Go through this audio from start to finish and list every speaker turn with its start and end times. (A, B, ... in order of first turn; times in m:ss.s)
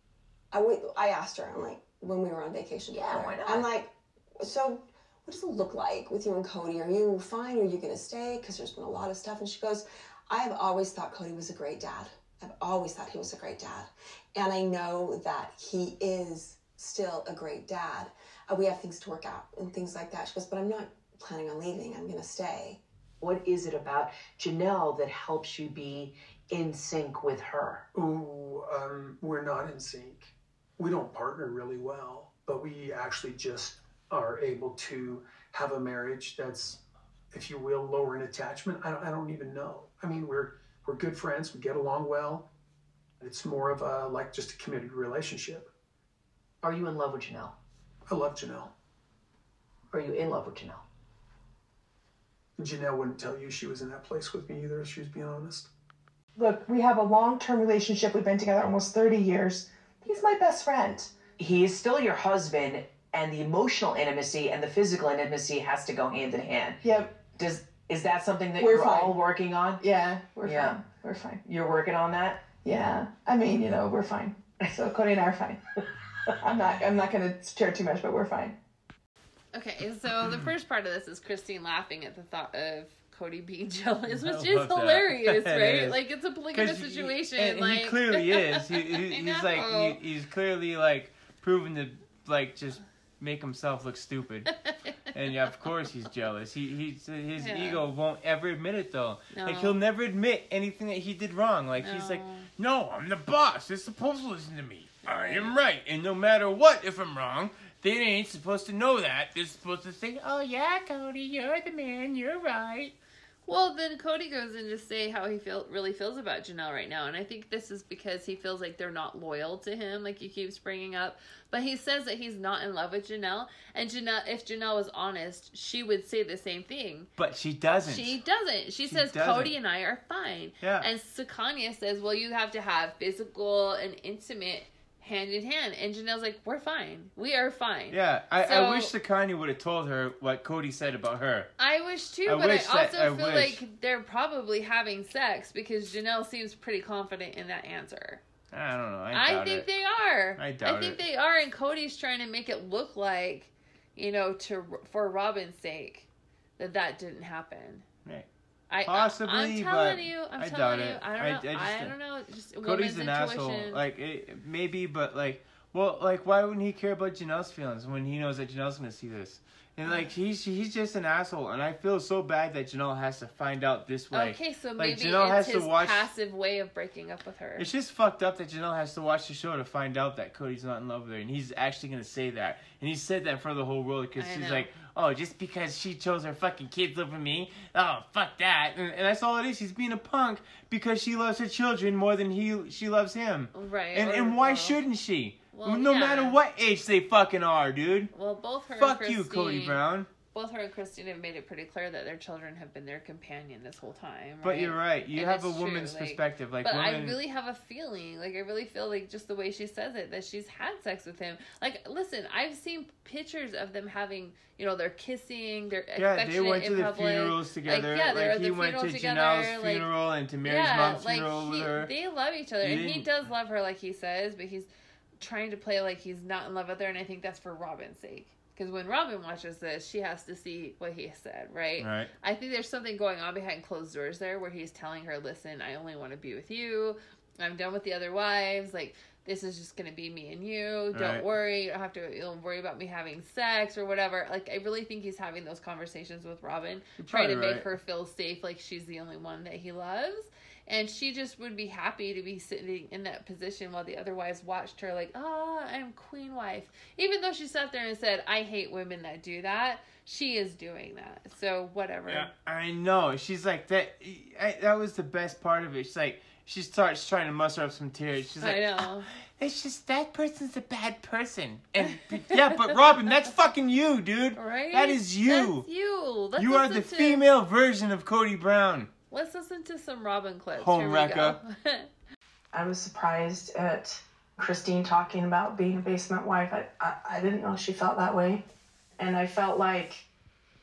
0:00.5-0:22.8 A
0:02.9-0:03.7 B
0:23.2-0:27.8 B
0:27.9-0:36.8 C
0:37.3-0:42.5 C
0:43.2-0:45.7 C
0:46.6-0:47.5 B
0:48.1-0:48.7 C
0:49.9-0:50.8 B
0:52.6-0:55.7 C
0:56.3-1:01.1 D
1:01.4-1:06.8 B
1:06.8-1:07.2 D
1:07.3-1:09.8 B
1:08.6-1:09.1 D
1:09.8-1:11.4 D
1:10.4-1:10.8 B
1:11.4-1:12.5 B
1:12.5-1:15.6 D
1:16.4-1:18.6 D
1:19.5-1:30.0 E
1:24.1-1:26.0 F
1:26.5-1:34.5 F
1:35.1-1:53.0 F
1:37.4-1:37.8 E
1:39.3-1:39.8 E
1:41.8-1:42.5 E
1:45.1-1:45.5 E
1:53.4-2:07.1 E
2:07.2-2:08.2 F
2:07.8-2:18.9 E
2:08.8-2:09.5 F
2:10.6-2:10.9 F
2:17.9-2:21.5 F
2:21.6-2:28.2 E
2:22.2-2:23.6 F
2:28.5-2:29.7 F
2:29.1-2:37.8 E
2:30.4-2:31.0 F
2:38.7-2:43.8 E
2:38.8-2:41.9 F
2:42.6-2:56.1 F
2:54.1-2:57.7 E
2:57.6-3:18.1 F
3:04.2-3:04.7 E
3:13.5-3:14.8 E
3:15.5-3:16.4 E
3:18.1-3:19.8 E
3:18.8-3:20.1 F
3:20.3-3:39.9 E
3:24.4-3:27.2 F
3:36.0-3:41.9 F
3:40.4-3:44.7 E
3:42.6-3:43.1 F
3:45.2-4:22.3 E
3:51.8-3:52.1 F
4:00.9-4:01.2 F
4:07.0-4:07.7 F
4:22.1-4:35.6 F
4:28.4-4:29.1 E
4:31.8-4:32.8 E
4:34.4-4:37.2 E
4:36.4-4:38.9 F
4:39.1-4:41.9 E
4:40.5-4:41.4 F
4:42.5-4:48.4 G
4:49.0-4:50.1 G